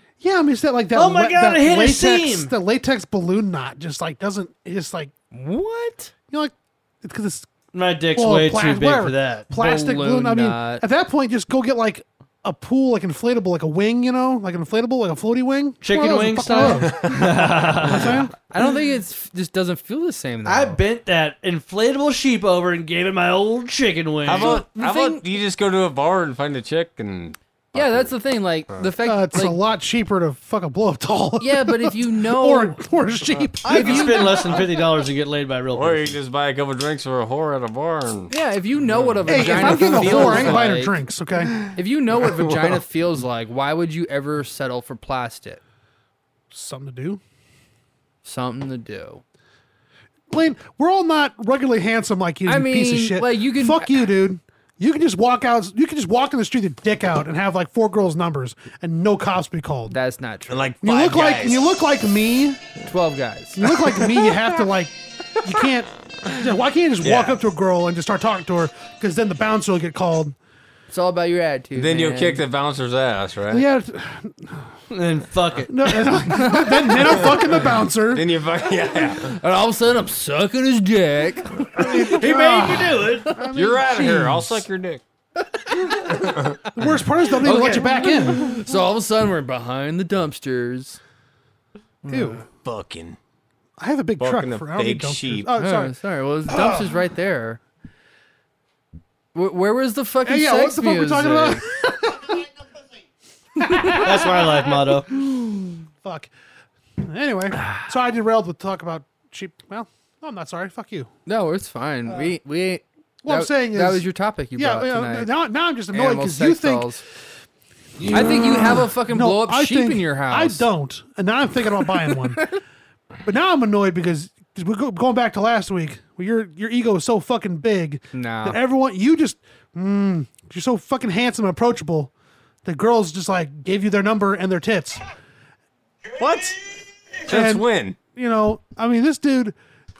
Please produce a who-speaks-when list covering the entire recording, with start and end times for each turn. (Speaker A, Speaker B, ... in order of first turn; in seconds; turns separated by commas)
Speaker A: 0.2-5.1, Speaker B: 0.9-2.5, Speaker C: 5.3-6.1, Speaker A: 6.3-7.5, Speaker B: 7.7-9.5, Speaker A: 8.1-18.3, Speaker C: 9.5-10.8, Speaker B: 15.8-18.3, Speaker C: 18.5-20.8, Speaker B: 20.4-24.6, Speaker D: 24.2-28.1, Speaker C: 24.3-25.2, Speaker C: 27.7-29.6, Speaker A: 29.0-34.3, Speaker C: 31.4-32.8, Speaker C: 33.6-34.6, Speaker B: 33.6-36.0, Speaker D: 35.7-38.3, Speaker C: 38.3-40.9, Speaker D: 38.9-40.7, Speaker A: 39.3-41.6, Speaker C: 41.7-45.6, Speaker D: 42.2-42.8, Speaker A: 46.5-47.2, Speaker C: 48.2-49.2, Speaker A: 50.3-60.0, Speaker C: 52.5-53.9, Speaker C: 59.9-60.7, Speaker D: 60.5-61.6, Speaker A: 60.8-62.6, Speaker C: 62.8-63.7, Speaker A: 63.5-70.3, Speaker D: 67.0-67.5, Speaker C: 70.9-72.4, Speaker D: 71.7-73.7, Speaker A: 73.5-74.6, Speaker B: 74.9-76.0, Speaker A: 75.7-78.2, Speaker C: 76.3-77.1, Speaker D: 77.1-79.3, Speaker C: 79.1-82.2, Speaker A: 81.8-84.6, Speaker B: 82.0-83.3, Speaker D: 83.5-85.0, Speaker D: 86.1-86.7, Speaker A: 86.7-88.6, Speaker B: 87.4-88.2, Speaker C: 87.4-91.0, Speaker C: 92.0-92.4, Speaker A: 92.1-92.4, Speaker D: 92.6-93.2, Speaker A: 93.8-95.9, Speaker D: 94.2-95.5, Speaker C: 95.5-97.6, Speaker A: 96.5-96.9, Speaker C: 99.3-101.6, Speaker A: 100.2-102.4, Speaker A: 103.6-104.6, Speaker C: 103.6-104.0, Speaker B: 103.9-105.1, Speaker A: 106.0-106.3, Speaker A: 107.0-111.1, Speaker C: 111.2-115.3, Speaker A: 113.2-117.0, Speaker C: 115.9-117.0, Speaker A: 118.0-122.5, Speaker C: 118.1-120.7, Speaker C: 121.9-122.5, Speaker A: 123.2-132.1, Speaker C: 128.1-128.6, Speaker A: 132.6-135.0, Speaker D: 136.2-136.7, Speaker D: 137.2-138.0, Speaker A: 137.3-139.6